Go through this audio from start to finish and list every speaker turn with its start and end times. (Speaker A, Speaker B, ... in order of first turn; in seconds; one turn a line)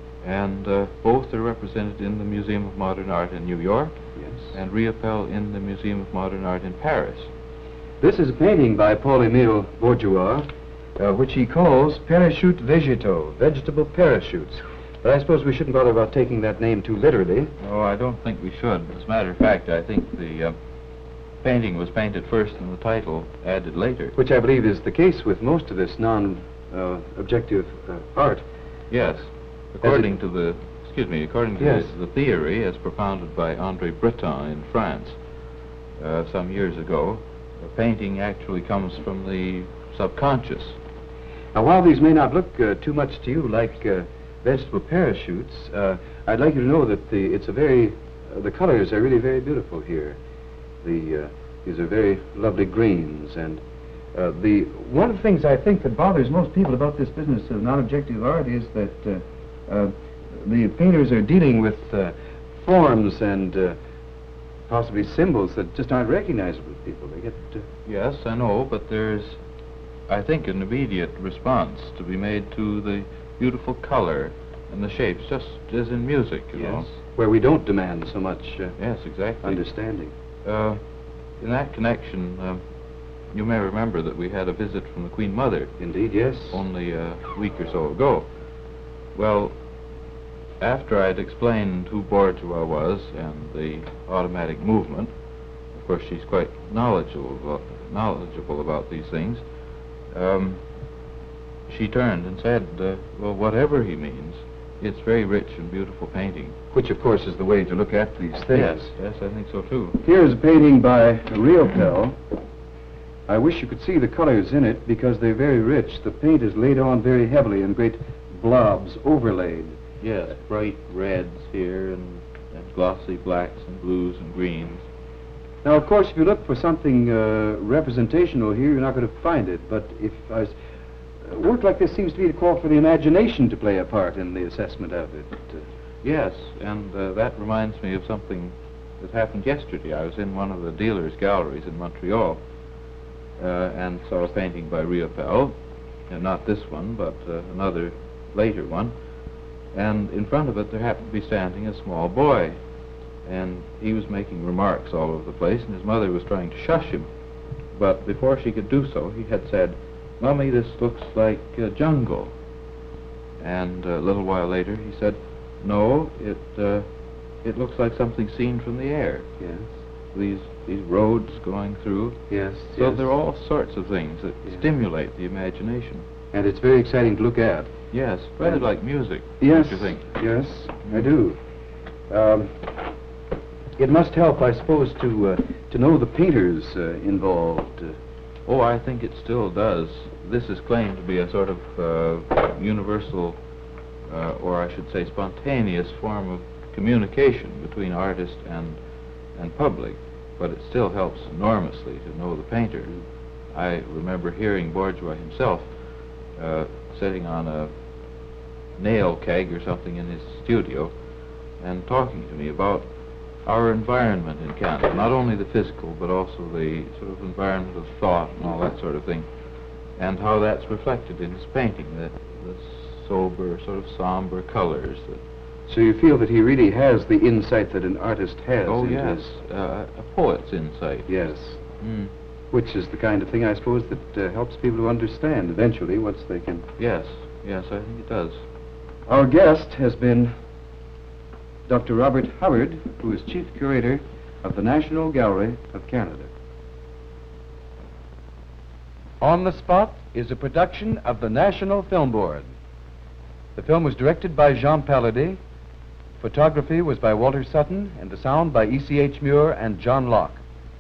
Speaker A: 0.2-7.3
Speaker B: 4.2-4.6
Speaker B: 8.0-17.5
Speaker A: 17.6-20.6
Speaker A: 21.4-24.2
Speaker B: 24.2-28.4
Speaker A: 28.9-35.2
Speaker B: 29.8-30.1
Speaker B: 31.6-31.9
Speaker A: 36.0-40.8
Speaker B: 41.5-50.2
Speaker B: 50.8-53.6
Speaker B: 54.1-63.8
Speaker B: 64.7-67.7
Speaker A: 67.9-69.4
Speaker A: 70.1-77.0
Speaker B: 76.5-78.8
Speaker A: 78.8-79.8
Speaker B: 79.4-80.1
Speaker A: 80.5-80.8
Speaker A: 81.4-82.6
Speaker A: 83.3-85.8
Speaker B: 85.8-86.6
Speaker A: 86.5-88.3
Speaker A: 89.1-89.6
Speaker A: 90.6-95.1
Speaker A: 95.8-99.5
Speaker A: 100.1-100.6
Speaker A: 101.7-106.6
Speaker B: 106.7-108.9
Speaker A: 108.5-110.0
Speaker B: 110.0-112.2
Speaker B: 113.3-119.8
Speaker A: 120.0-124.9
Speaker B: 125.6-130.6
Speaker B: 131.2-135.6
Speaker A: 136.0-142.4
Speaker A: 143.4-149.0
Speaker A: 149.7-152.6
Speaker A: 153.2-157.1
Speaker A: 157.7-162.3
Speaker A: 163.4-166.9
Speaker A: 167.4-169.3
Speaker B: 169.4-169.7
Speaker A: 170.1-176.1
Speaker B: 172.3-173.1
Speaker B: 176.3-177.7
Speaker A: 177.9-180.1
Speaker B: 178.4-178.7
Speaker B: 179.4-181.4
Speaker B: 182.1-182.9
Speaker B: 183.8-188.0
Speaker A: 188.5-193.4
Speaker A: 194.1-198.8
Speaker A: 199.3-203.0
Speaker A: 203.5-205.8
Speaker A: 206.3-207.8
Speaker A: 208.8-210.9
Speaker A: 211.6-212.9
Speaker A: 213.4-219.3
Speaker A: 220.0-225.2
Speaker B: 225.7-229.3
Speaker A: 228.7-231.1
Speaker B: 231.1-231.6
Speaker A: 231.8-232.1
Speaker B: 232.5-236.7
Speaker A: 236.8-238.4
Speaker B: 239.1-240.4
Speaker B: 241.7-246.3
Speaker B: 249.2-252.5
Speaker B: 253.6-255.4
Speaker B: 256.2-260.4